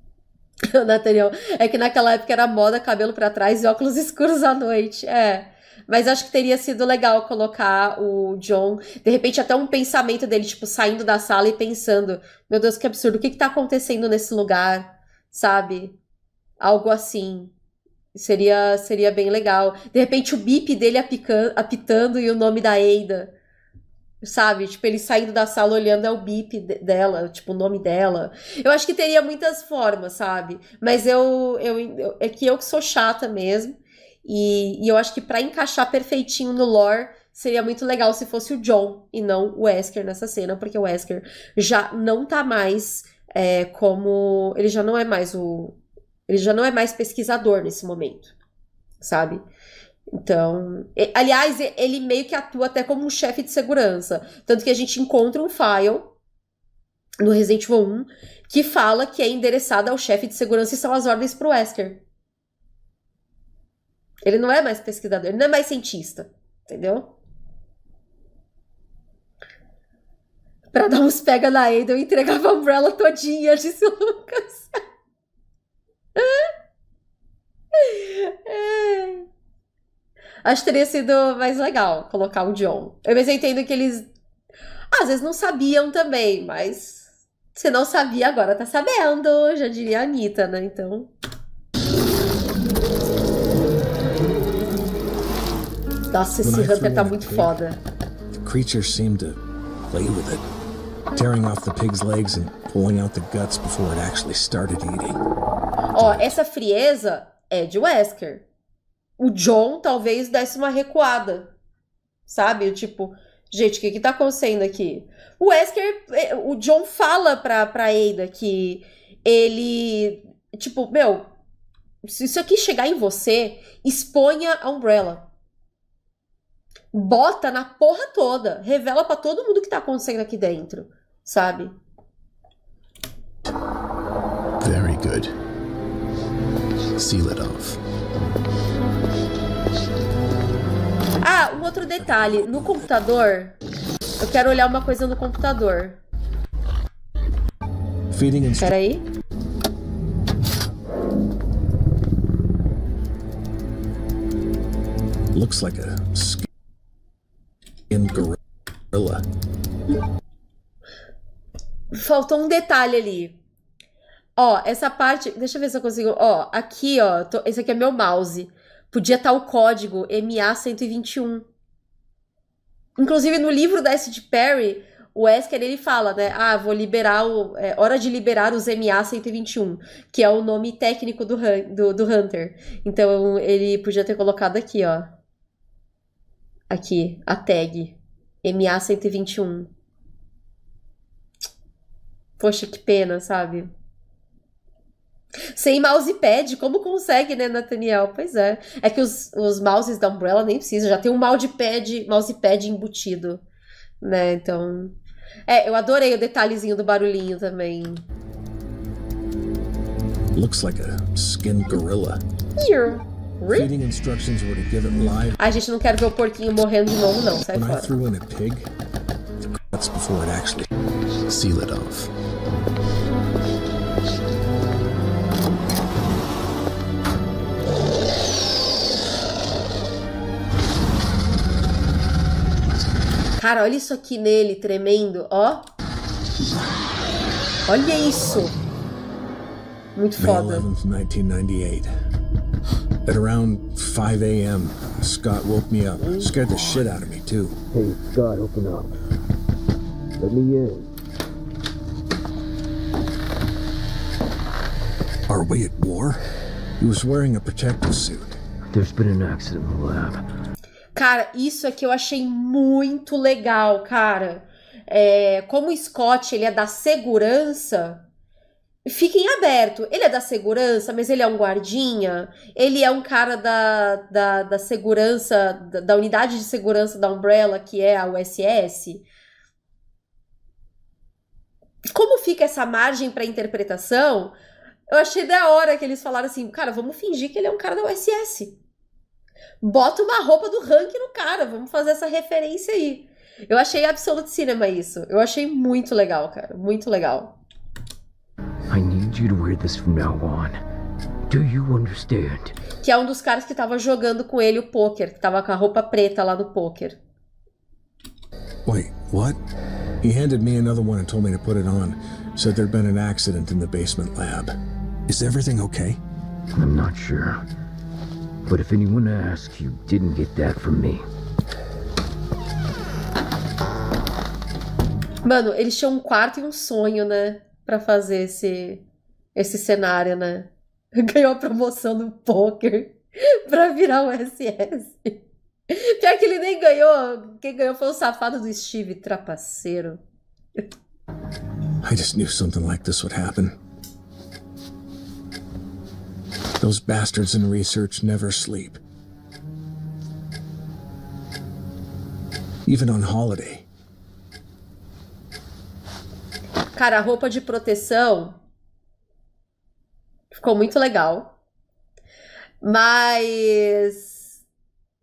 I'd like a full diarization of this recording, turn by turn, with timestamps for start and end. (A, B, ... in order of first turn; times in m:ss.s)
0:00.7-0:16.0 A
0:16.6-0:17.5 A
0:18.1-0:23.3 A
0:24.2-0:48.3 A
0:49.0-0:49.4 A
0:50.1-0:56.1 A
0:57.2-1:02.0 A
1:04.2-1:07.1 A
1:10.7-1:14.7 A
1:16.2-1:16.5 A
1:17.7-1:19.2 A
1:20.4-1:24.1 A
1:24.9-1:31.1 A
1:36.1-1:37.8 A
1:36.4-1:37.6 B
1:38.4-1:40.4 B
1:41.1-1:45.2 B
1:45.9-1:48.4 A
1:46.0-1:46.3 B
1:49.2-1:51.5 A
1:52.2-2:01.3 A
2:02.0-2:05.2 A
2:06.9-2:11.7 A
2:14.6-2:15.3 C
2:17.0-2:17.8 C
2:21.2-2:23.5 A
2:22.2-2:22.8 B
2:24.2-2:26.0 A
2:28.1-2:28.8 B
2:28.6-2:29.0 A
2:35.3-2:36.5 B
2:37.9-2:38.4 B
2:38.9-2:39.2 B
2:41.9-2:43.4 A
2:44.4-2:51.5 A
2:53.0-3:05.1 A
3:06.7-3:09.7 A
3:12.4-3:13.7 A
3:15.5-3:23.4 A
3:24.0-3:24.9 A
3:25.5-3:28.0 A
3:30.3-3:32.2 B
3:32.6-3:33.7 A
3:33.5-3:35.4 B
3:35.4-3:38.0 A
3:37.5-3:38.7 B
3:39.7-3:40.7 B
3:41.3-3:42.1 C
3:53.4-3:55.6 A
3:57.7-3:58.5 A
4:00.0-4:00.7 A
4:00.2-4:01.9 B
4:03.0-4:07.6 B
4:07.7-4:08.9 D
4:10.2-4:10.9 D
4:15.3-4:16.2 B
4:16.8-4:18.4 B
4:18.7-4:20.2 D
4:20.9-4:28.0 A
4:28.8-4:39.0 A
4:41.9-4:44.3 A
4:44.9-4:48.6 A
4:49.6-4:57.4 A
4:58.7-5:00.6 D
5:01.3-5:02.6 D
5:02.8-5:07.0 A
5:08.6-5:09.4 B
5:10.0-5:16.0 B
5:16.5-5:17.4 D
5:18.4-5:21.0 D
5:25.2-5:28.8 A
5:29.3-5:35.2 A
5:35.7-5:40.0 A
5:41.8-5:43.6 B
5:46.6-5:48.8 B
5:52.6-5:53.7 B
5:56.7-5:58.4 A
6:00.3-6:01.4 A
6:02.6-6:04.3 A